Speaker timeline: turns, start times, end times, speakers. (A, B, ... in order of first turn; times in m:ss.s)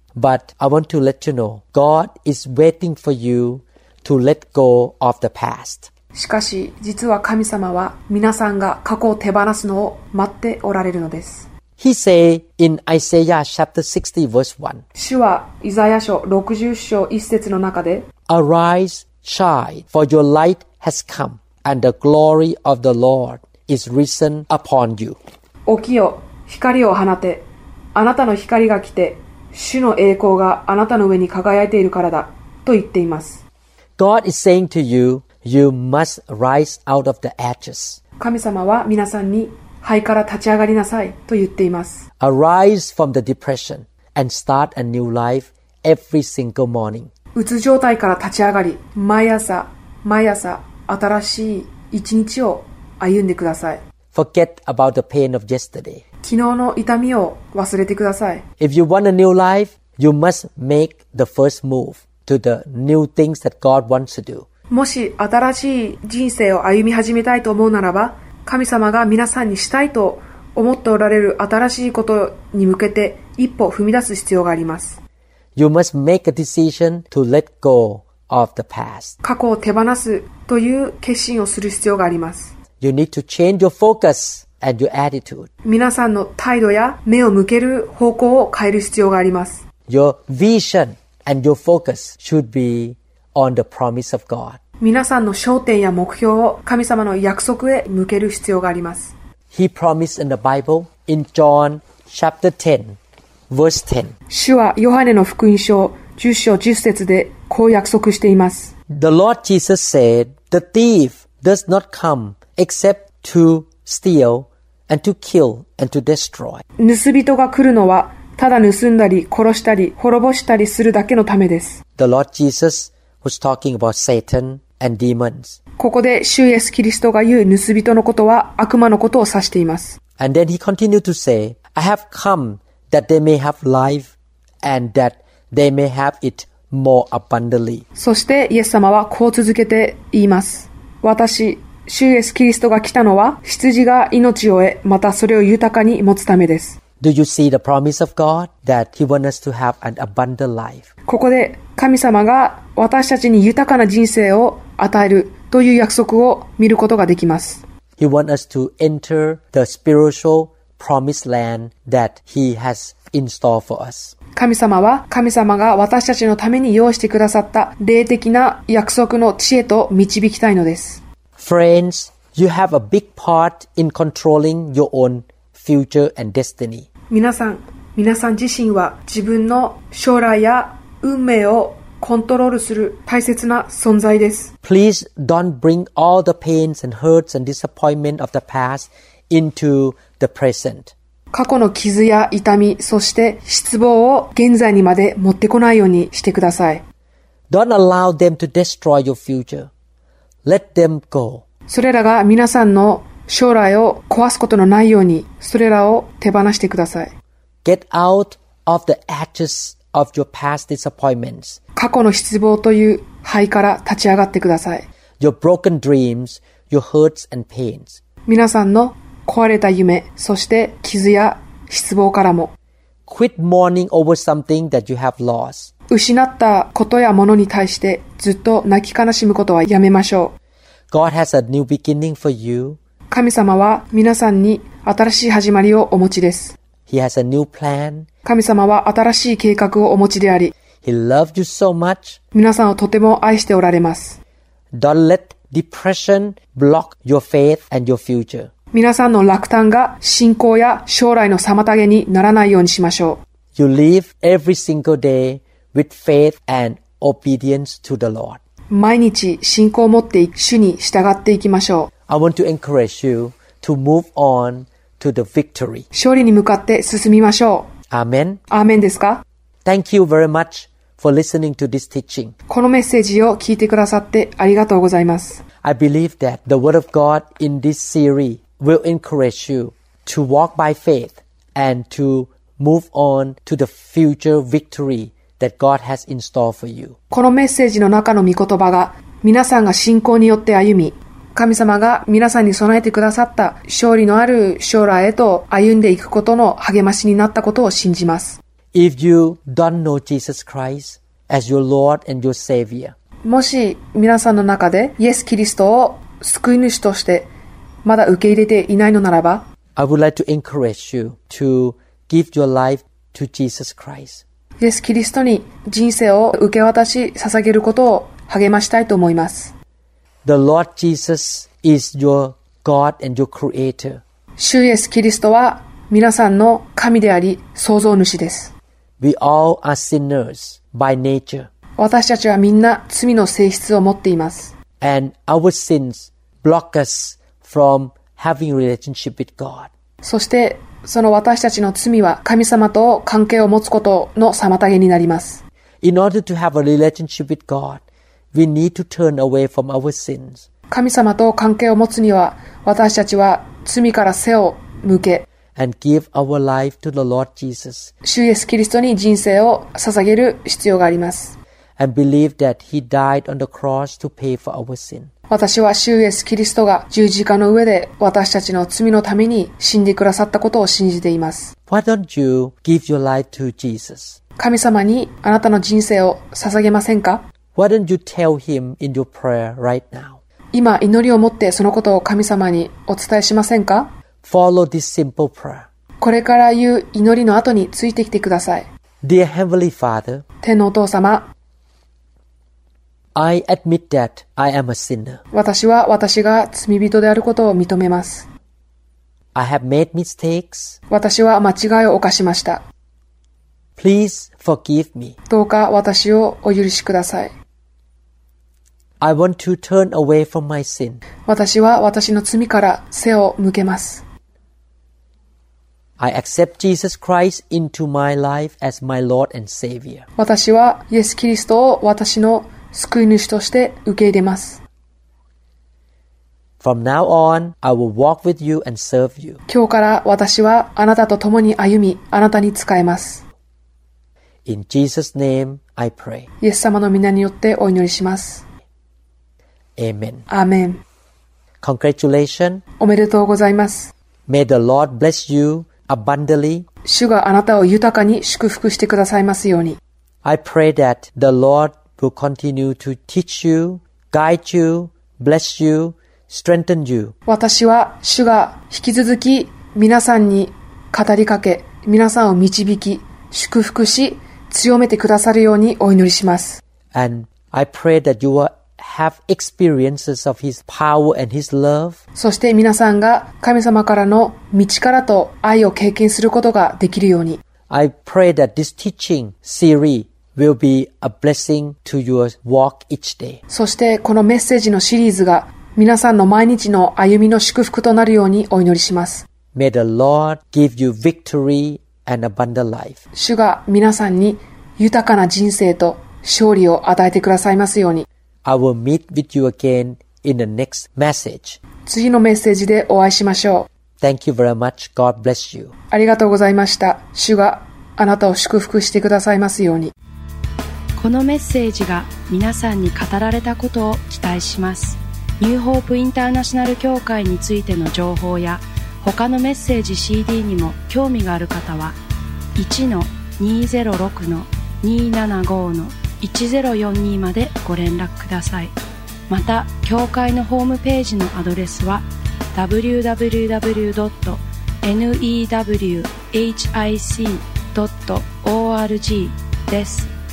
0:00.1-0:05.9 A
0:06.1-0:11.5 B
0:11.8-0:14.8 A
0:15.0-0:18.1 B
0:18.3-0:25.2 A
0:25.7-0:33.4 B
0:34.0-0:38.0 A
0:38.2-0:42.0 B
0:42.2-0:47.1 A
0:47.3-0:53.8 B
0:54.1-0:56.0 A
0:56.2-0:58.4 B
0:58.6-1:04.5 A
1:04.7-1:15.0 B
1:15.6-1:19.1 A
1:19.2-1:22.6 B
1:22.8-1:25.5 A
1:25.6-1:29.6 B
1:29.9-1:34.6 A
1:34.8-1:39.1 B
1:39.5-1:43.0 A
1:43.5-1:44.1 A
1:44.3-1:48.7 B
1:48.9-1:56.6 A
1:56.8-2:01.8 B
2:02.0-2:05.6 A
2:05.8-2:10.0 B
2:10.2-2:17.8 A
2:18.0-2:26.8 B
2:27.0-2:30.9 A
2:31.1-2:37.6 B
2:38.0-2:44.2 A
2:44.3-2:51.0 B
2:51.4-2:56.9 A
2:57.1-3:04.5 B
3:04.6-3:10.9 A
3:11.3-3:16.8 B
3:17.5-3:19.7 A
3:20.4-3:21.4 A
3:21.7-3:27.1 B
3:27.6-3:31.6 A
3:31.8-3:34.9 B
3:35.2-3:38.0 A
3:38.2-3:42.5 B
3:43.1-3:45.7 A
3:45.9-3:50.3 B
3:50.9-3:52.8 A
3:53.1-3:56.6 B
3:56.9-3:58.1 A
3:58.2-4:00.5 B
4:00.8-4:02.2 A
4:02.3-4:04.2 B
4:04.7-4:08.5 A
4:08.7-4:13.2 B
4:13.5-4:18.4 A
4:18.7-4:21.9 B
4:22.1-4:25.8 A
4:25.9-4:27.7 B
4:27.9-4:28.4 A
4:28.5-4:29.2 B
4:29.6-4:32.3 A
4:32.5-4:35.4 B
4:35.6-4:47.0 A
4:47.1-4:58.4 B
4:58.7-5:02.9 A
5:03.2-5:07.3 B
5:07.8-5:09.4 B
5:09.8-5:14.2 A
5:14.6-5:19.5 B
5:20.2-5:24.0 A
5:24.4-5:28.5 B
5:29.0-5:31.5 A
5:31.8-5:34.5 B
5:34.8-5:39.7 A
5:40.0-5:45.4 B
5:45.8-5:47.8 A
5:48.3-5:50.4 A
5:50.7-5:55.2 B
5:55.5-5:57.9 A
5:58.0-6:01.4 B
6:01.8-6:05.1 A
6:05.3-6:11.5 B
6:11.7-6:14.2 A
6:14.4-6:17.2 B
6:17.5-6:20.2 A
6:20.5-6:23.9 B
6:24.2-6:25.7 A
6:26.0-6:28.7 B
6:29.0-6:30.2 A
6:30.4-6:31.3 B
6:33.1-6:35.2 A
6:35.3-6:38.3 B
6:39.3-6:40.8 A
6:40.9-6:42.6 B
6:43.8-6:45.2 A
6:45.3-6:47.3 B
6:49.0-6:51.0 A
6:51.3-6:54.0 B
6:56.0-7:00.0 A
7:00.2-7:04.6 B
7:06.6-7:09.4 A
7:09.5-7:13.2 B
7:14.4-7:16.3 A
7:16.4-7:18.4 B
7:19.8-7:20.2 A
7:20.3-7:20.8 B
7:21.6-7:22.6 A
7:22.8-7:23.9 B
7:24.3-7:26.7 A
7:26.8-7:29.8 B
7:30.2-7:37.1 A
7:37.3-7:46.6 B
7:46.9-7:52.0 A
7:52.2-7:57.4 B
7:57.7-8:03.4 A
8:03.5-8:09.2 B
8:09.5-8:13.0 A
8:13.1-8:18.1 B
8:18.4-8:21.6 A
8:21.8-8:23.7 B
8:24.0-8:25.7 A
8:25.9-8:29.9 B
8:31.0-8:42.0 C
8:42.6-8:48.7 C
8:49.3-9:00.1 C